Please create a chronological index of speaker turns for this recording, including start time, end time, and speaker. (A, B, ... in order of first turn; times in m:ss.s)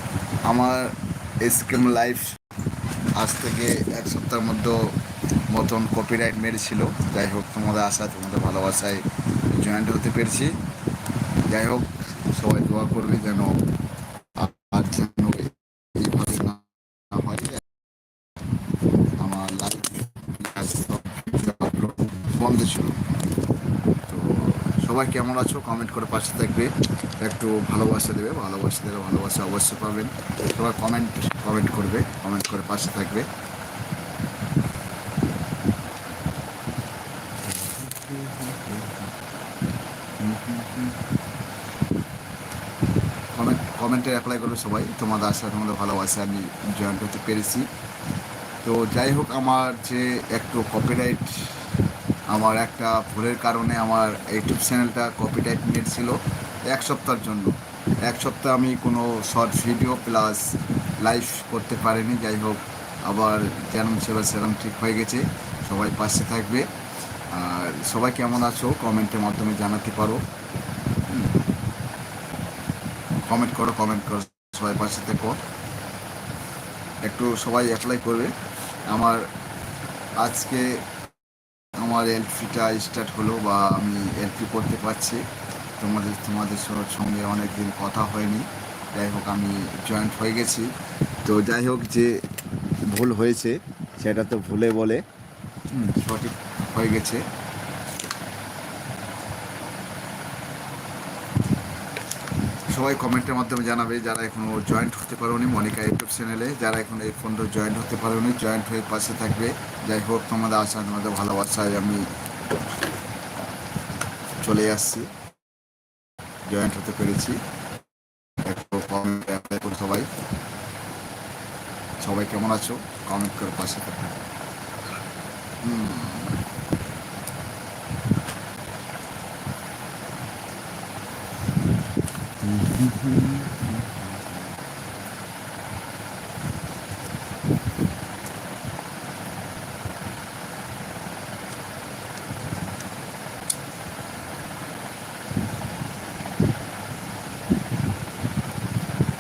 0:00.5-0:02.4 A
0:03.2-0:05.0 A
0:05.5-0:10.6 A
0:11.5-0:13.6 A
0:14.4-0:17.6 A
0:19.2-0:23.2 A
0:24.0-0:33.3 A
0:37.5-0:39.1 A
0:40.2-0:41.0 A
0:43.3-0:47.7 A
0:48.6-0:51.6 A
0:52.3-1:06.7 A
1:07.3-1:10.2 A
1:11.1-1:11.4 A
1:13.2-1:15.4 A
1:17.0-1:18.3 A
1:18.9-1:19.3 A
1:20.2-1:20.8 A
1:21.8-1:25.2 A
1:25.8-1:30.7 A
1:31.2-1:32.2 A
1:32.9-1:35.0 A
1:35.7-1:37.3 A
1:42.7-1:52.1 A
1:54.4-1:55.1 A
1:56.5-1:57.4 A
1:58.4-2:00.1 A
2:02.0-2:04.2 A
2:05.6-2:06.4 A
2:12.4-2:14.4 A